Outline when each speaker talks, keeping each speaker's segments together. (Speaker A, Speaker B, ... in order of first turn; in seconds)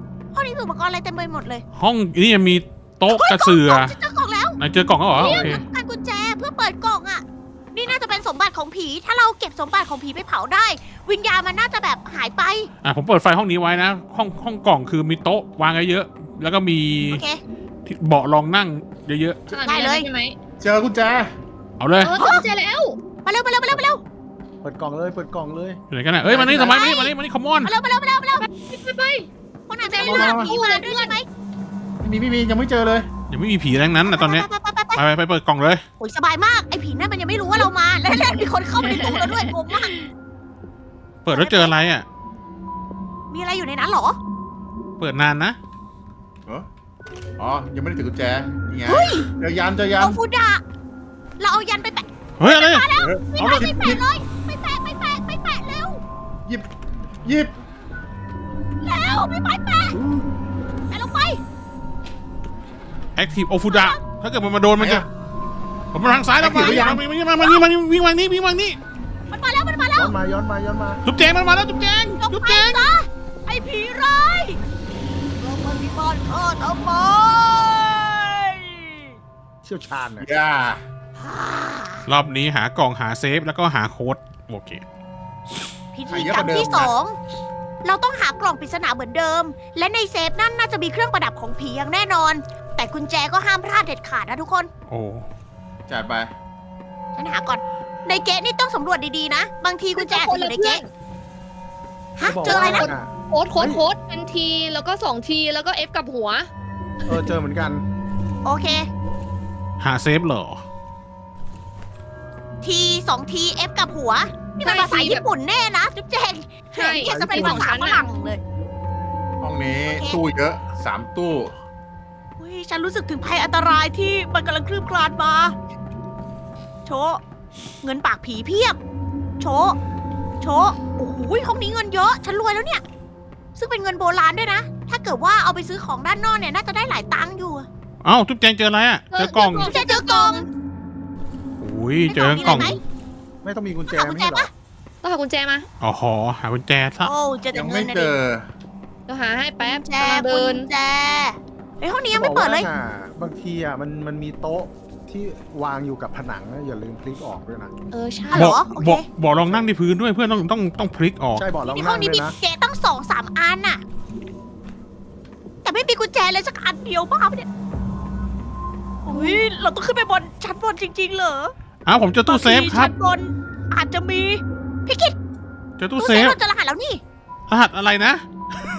Speaker A: 0.3-1.6, 3.1-4.6, 5.2-12.7, 17.1-17.4, 19.7-20.1, 22.2-22.4, 23.2-24.0, 26.5-27.1, 27.6-28.5, 29.7-31.2, 34.0-35.0, 36.0-39.9, 41.3-41.7, 43.3-44.2, 48.9-49.3, 50.0-50.6, 51.4-56.0, 58.8-60.0, 60.9-61.4, 63.7-64.0, 69.3-70.2, 72.2-74.6, 75.4-79.2, 81.2-82.1, 85.9-87.2, 87.8-94.7, 97.2-100.8, 102.2-102.9, 108.4-108.9, 112.6-118.4, 119.8-120.3, 122.4-125.5, 126.9-127.2, 127.8-128.8, 129.4-129.8, 130.4-132.8, 133.6-137.7, 139.6-140.5, 142.1-142.8, 143.9-144.5, 147.0-148.1, 149.6-152.7, 158.3-159.1, 161.7-163.8, 165.6-167.5, 169.1-171.5, 172.3-175.2, 176.0-177.0
Speaker B: 1.8-3.9, 4.6-5.6, 12.8-17.2, 17.9-19.4, 21.8-22.2, 25.9-27.7, 33.3-35.8, 41.2-42.0, 45.0-45.6, 52.4-53.7, 63.2-65.1, 65.9-68.8, 71.0-72.8, 82.1-84.8, 94.9-95.3, 109.8-110.6, 138.0-139.7, 141.6-142.8, 145.8-147.1, 158.3-161.4, 171.8-172.9, 175.8-176.4, 177.5-178.2
Speaker C: 5.2-5.5, 24.6-26.7, 59.9-60.3, 70.0-71.0, 79.6-80.3, 102.2-103.8, 107.1-107.8, 117.0-117.7, 142.4-142.8, 143.4-144.5, 152.1-157.7, 161.3-162.4
Speaker D: 5.2-5.6, 19.5-20.4, 22.0-23.0, 28.4-29.3, 29.8-31.2, 38.8-40.1, 100.0-100.9, 102.4-106.5, 114.6-115.2, 116.7-118.1, 139.1-140.5, 145.0-145.7, 149.1-150.7, 157.9-158.6, 169.1-169.4
Speaker E: 20.6-21.3, 30.0-30.5, 32.0-33.1, 47.4-50.2, 53.0-54.0, 57.2-57.5, 64.8-65.1, 66.4-67.0, 80.2-80.8, 86.1-86.9, 95.9-96.3, 119.4-121.6, 147.5-148.4